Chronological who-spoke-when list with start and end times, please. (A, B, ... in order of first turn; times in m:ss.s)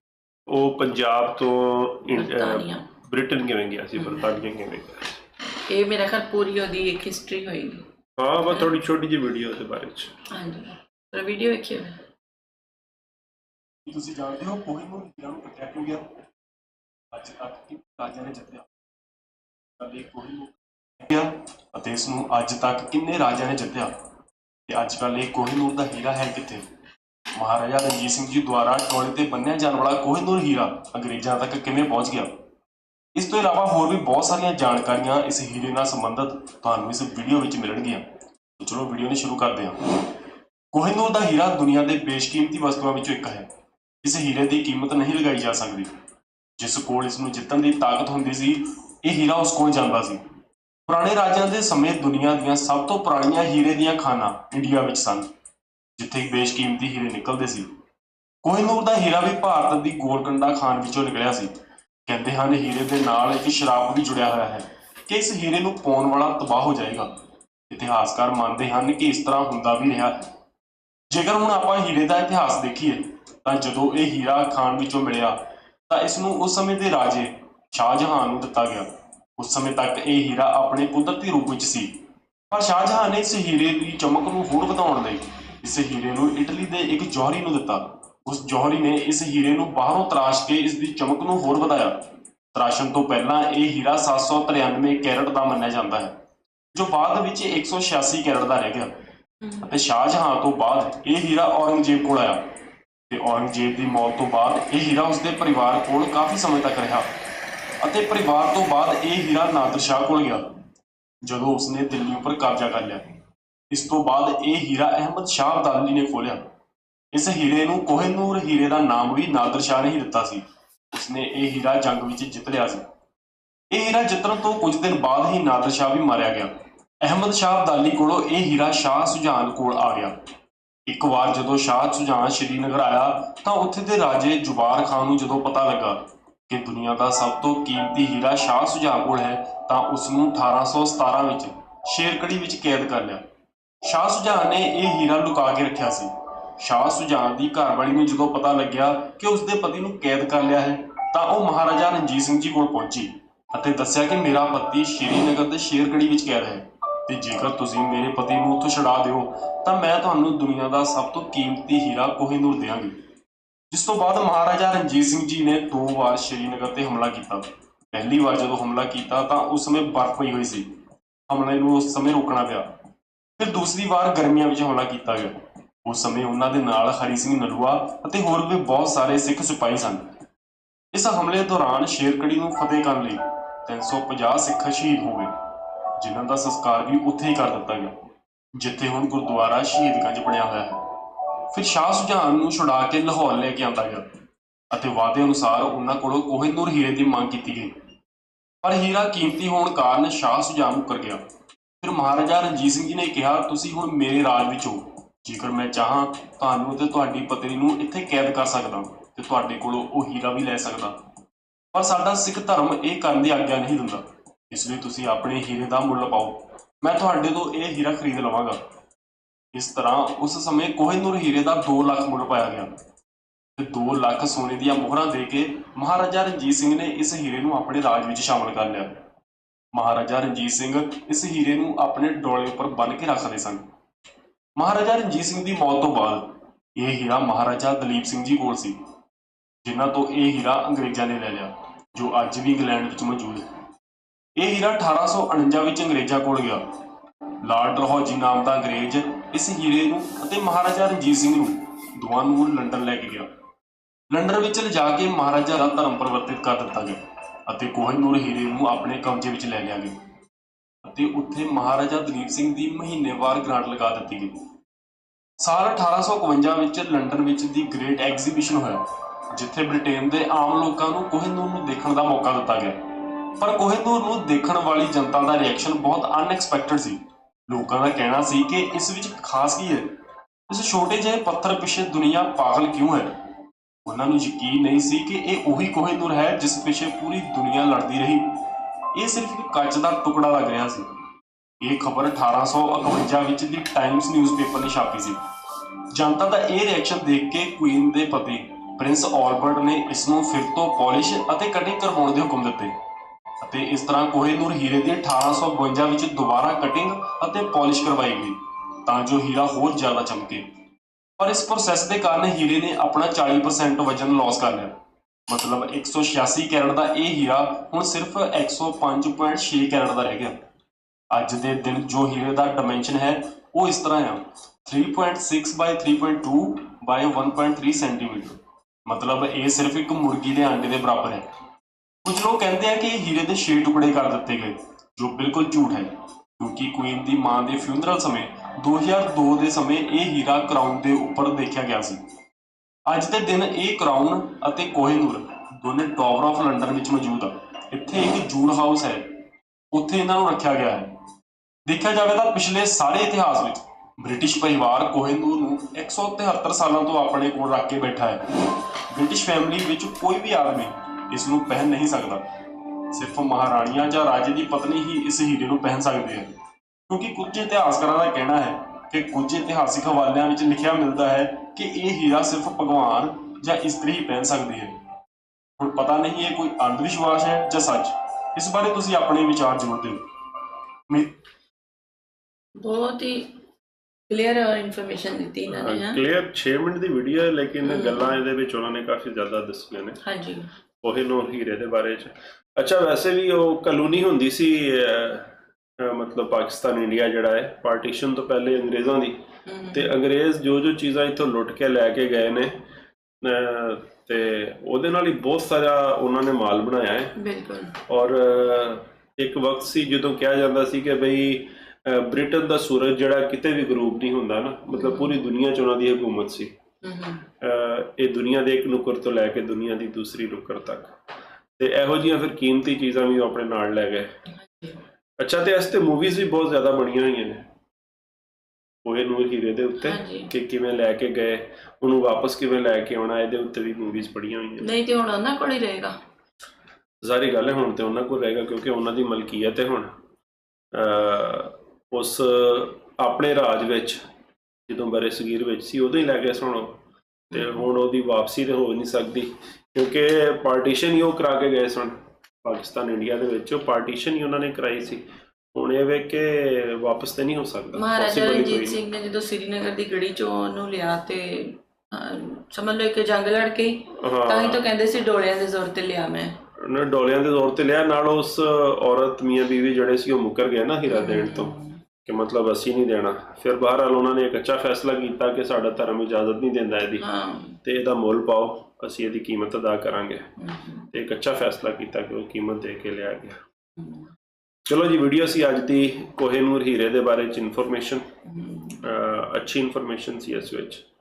0:00.5-0:05.2 A
0:02.1-0:02.9 B
0:05.6-0:07.9 B
0:08.2-0:10.2 A
0:08.5-0:08.7 B
0:10.2-0:12.0 B
0:13.9-0:16.0 C
0:17.1-0:18.7 C
0:19.8-0:23.9 C
0:24.7-0:26.6 C
0:27.4-0:32.3 C
0:33.2-0:38.0 C
0:38.6-0:40.2 C
0:40.7-0:43.5 C
0:44.0-0:45.9 C
0:46.6-0:50.2 C
0:50.9-0:55.3 C
0:56.0-0:57.7 C
0:58.4-1:01.5 C
1:02.1-1:07.1 C
1:07.7-1:10.3 C
1:11.1-1:15.4 C
1:15.9-1:22.0 C
1:22.5-1:36.1 C
1:36.7-1:38.9 C
1:39.4-1:39.7 B
1:39.6-1:42.5 C
1:43.1-1:47.1 C
1:47.8-1:50.5 C
1:51.2-1:53.1 C
1:53.7-1:56.4 C
1:57.1-2:02.8 C
2:03.7-2:06.5 C
2:07.0-2:10.2 C
2:10.9-2:23.2 C
2:23.8-2:42.9 C
2:43.7-2:50.7 C
2:51.3-2:52.7 C
2:53.4-3:00.1 C
3:00.9-3:07.9 C
3:08.6-3:14.1 C
3:14.7-3:17.7 C
3:18.6-3:21.2 C
3:21.8-3:31.0 C
3:31.7-3:38.6 C
3:39.5-3:42.7 C
3:43.6-3:49.0 C
3:49.7-3:53.6 C
3:54.6-3:58.8 C
3:59.6-4:03.4 C
4:04.4-4:06.6 C
4:07.4-4:13.3 C
4:14.1-4:19.9 C
4:20.8-4:24.3 C
4:25.4-4:39.9 C
4:40.5-4:43.1 C
4:43.9-4:50.9 C
4:51.6-4:55.2 C
4:55.9-5:02.7 C
5:03.4-5:10.5 C
5:11.2-5:14.7 C
5:15.3-5:20.4 C
5:21.1-5:31.3 C
5:32.0-5:42.0 C
5:42.9-5:51.0 C
5:51.7-6:06.3 C
6:06.9-6:14.7 C
6:15.6-6:21.1 C
6:22.6-6:23.4 B
6:24.1-6:26.0 B
6:25.5-6:30.0 A
6:27.6-6:28.1 B
6:30.0-6:30.5 B
6:30.8-6:39.2 A
6:39.5-6:39.9 B
6:39.7-6:42.6 A
6:43.2-6:47.1 A
6:47.2-6:47.8 B
6:47.9-6:56.5 A
6:54.7-6:55.2 B
6:56.8-6:57.2 B
6:57.4-7:00.9 A
7:01.6-7:04.1 A
7:04.4-7:04.8 B
7:05.2-7:07.4 A
7:08.8-7:14.7 A
7:09.8-7:10.3 B
7:14.6-7:16.0 B
7:17.0-7:19.9 A
7:20.7-7:24.0 A
7:24.7-7:26.8 A
7:27.3-7:38.8 A
7:37.7-7:46.4 B
7:43.9-7:44.6 A
7:46.6-7:51.5 A
7:50.9-7:51.8 B
7:52.0-7:57.0 A
7:57.0-7:57.6 B
7:57.6-8:00.3 A
8:00.4-8:00.9 B
8:00.9-8:03.4 A
8:03.8-8:04.1 B
8:04.7-8:08.1 A
8:08.2-8:08.8 B
8:08.8-8:10.8 A